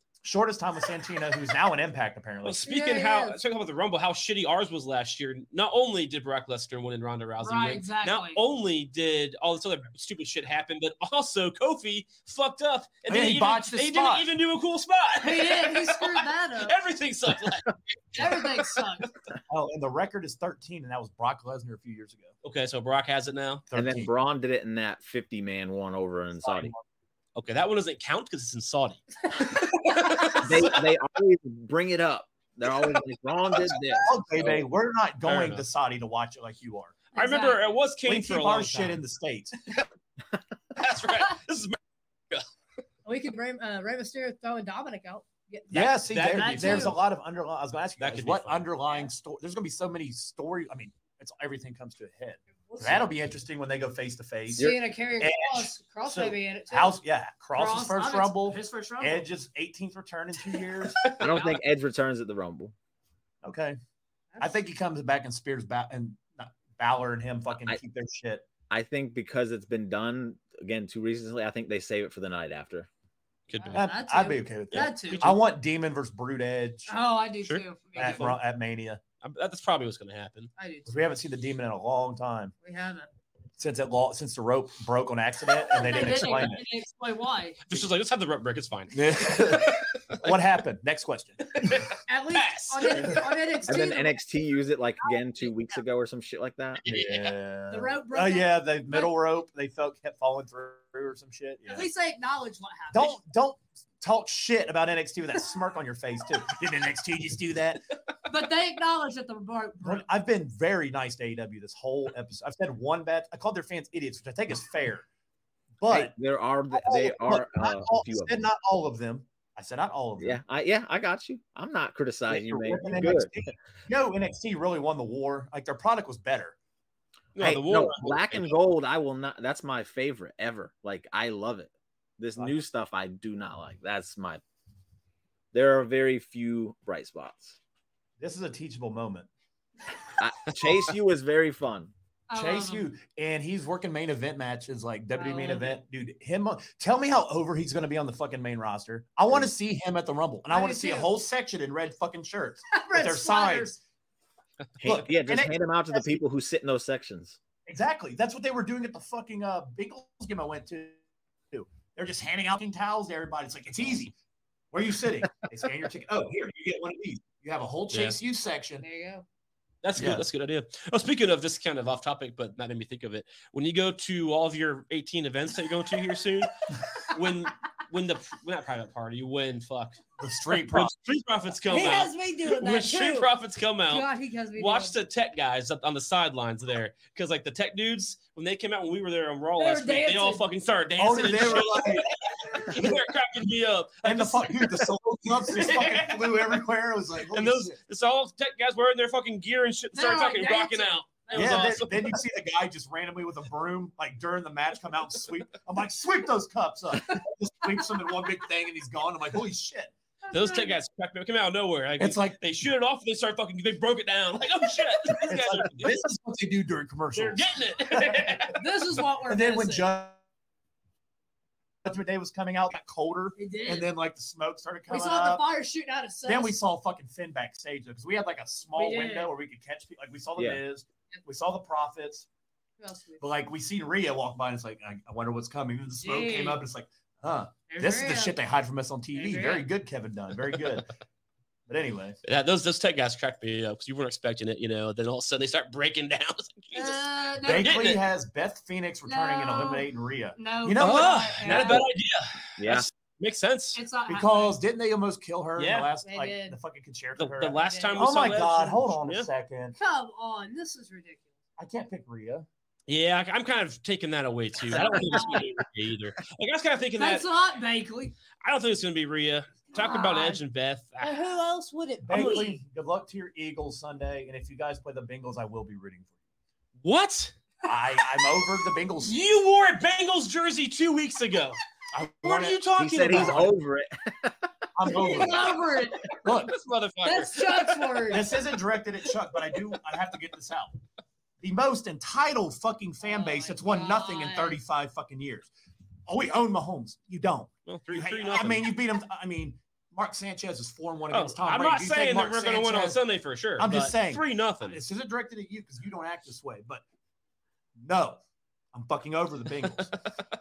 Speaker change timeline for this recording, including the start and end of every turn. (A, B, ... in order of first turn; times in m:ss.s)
0:00.2-0:02.6 A
0:02.4-0:19.1 B
0:02.6-0:03.4 C
0:07.4-0:08.4 C
0:13.1-0:14.3 A
0:15.2-0:16.8 C
0:18.2-0:19.1 C
0:19.5-0:22.3 A
0:22.4-0:23.6 B
0:23.7-0:24.1 A
0:23.7-0:26.7 D
0:26.4-0:26.8 A
0:27.4-0:30.8 B
0:30.3-0:34.6 D
0:34.0-0:37.0 A
0:35.2-0:35.6 B
0:37.1-0:37.7 C
0:37.1-0:39.0 B
0:38.0-0:39.5 A
0:40.7-0:41.8 B
0:43.0-0:47.0 C
0:45.7-1:01.1 A
0:45.7-0:47.0 B
0:48.0-0:48.7 B
0:52.7-0:53.1 C
0:54.5-0:57.0 C
0:57.6-0:59.2 C
1:01.0-1:01.6 B
1:01.1-1:02.7 D
1:03.4-1:03.8 A
1:04.3-1:04.6 C
1:04.4-1:08.5 A
1:08.7-1:12.9 D
1:13.5-1:13.8 B
1:13.6-1:15.3 C
1:13.7-1:16.9 A
1:14.7-1:15.4 B
1:16.9-1:18.3 C
1:17.4-1:18.4 B
1:18.0-1:19.0 A
1:19.2-1:20.5 B
1:20.6-1:20.9 C
1:20.8-1:22.5 A
1:22.6-1:23.1 C
1:23.6-1:26.6 A
1:25.7-1:27.6 C
1:27.7-1:30.2 B
1:28.9-1:31.8 A
1:31.5-1:33.2 B
1:32.1-1:34.2 C
1:33.0-1:33.2 A
1:33.6-1:36.8 D
1:35.0-1:35.8 C
1:36.8-1:37.3 B
1:36.8-1:41.9 A
1:37.7-1:39.1 C
1:41.7-1:43.2 C
1:42.9-1:47.8 A
1:48.2-1:50.0 C
1:49.8-1:55.0 A
1:55.8-1:56.1 A
1:55.9-1:58.4 D
1:56.7-2:00.4 A
2:00.2-2:03.3 D
2:02.3-2:06.6 A
2:07.4-2:08.5 B
2:07.4-2:14.4 D
2:15.5-2:17.6 D
2:18.2-2:19.3 A
2:20.2-2:21.9 D
2:22.3-2:22.9 C
2:22.3-2:33.7 A
2:25.1-2:25.8 C
2:30.5-2:31.1 C
2:32.7-2:33.8 C
2:34.8-2:37.4 D
2:34.8-2:36.2 A
2:37.7-2:41.0 A
2:41.5-2:44.2 A
2:44.7-2:48.8 A
2:47.9-2:48.2 B
2:48.8-2:49.2 C
2:49.8-3:00.0 B
2:50.0-2:50.2 A
3:00.2-3:00.9 A
3:00.6-3:14.9 B
3:01.7-3:03.3 C
3:03.9-3:05.0 C
3:09.6-3:10.4 C
3:11.0-3:13.0 A
3:14.0-3:17.8 A
3:15.5-3:16.5 B
3:17.3-3:22.2 B
3:19.9-3:21.7 C
3:21.3-3:29.9 A
3:30.3-3:30.8 C
3:30.3-3:35.9 B
3:32.0-3:32.4 A
3:35.2-3:38.5 A
3:37.1-3:38.6 B
3:38.5-3:39.9 C
3:39.3-3:40.2 A
3:41.8-3:45.4 A
3:43.4-3:43.9 C
3:44.9-3:46.5 C
3:46.2-3:52.3 A
3:48.8-3:49.3 C
3:52.8-3:53.2 C
3:53.2-4:00.9 A
3:56.0-3:56.6 C
3:57.7-3:58.4 C
3:59.1-3:59.6 C
4:01.7-4:02.2 A
4:02.2-4:08.0 B
4:06.7-4:07.8 C
4:07.4-4:11.8 A
4:09.1-4:11.8 C
4:10.8-4:13.8 B
4:12.6-4:12.9 D
4:13.7-4:14.6 C
4:14.1-4:19.8 A
4:15.6-4:15.9 B
4:16.0-4:16.6 C
4:17.2-4:19.3 B
4:17.5-4:18.2 C
4:19.8-4:21.3 C
4:21.6-4:22.5 A
4:22.9-4:27.2 B
4:24.7-4:25.4 C
4:27.0-4:28.2 C
4:28.4-4:31.2 B
4:29.7-4:30.4 C
4:31.0-4:32.6 C
4:32.0-4:36.1 A
4:32.1-4:32.4 B
4:36.8-4:37.4 B
4:37.6-4:39.2 A
4:39.0-4:41.6 B
4:41.9-4:43.6 A
4:42.2-4:43.5 B
4:42.8-4:44.5 D
4:44.8-4:45.6 A
4:44.9-4:46.2 C
4:46.2-4:46.6 A
4:46.2-4:48.2 B
4:47.0-4:48.3 C
4:48.1-4:50.8 A
4:51.4-4:55.5 A
4:53.0-4:54.6 C
4:56.1-5:03.0 A
4:57.7-4:58.7 B
5:01.1-5:04.8 B
5:03.6-5:06.8 A
5:07.8-5:08.2 A
5:08.7-5:09.9 A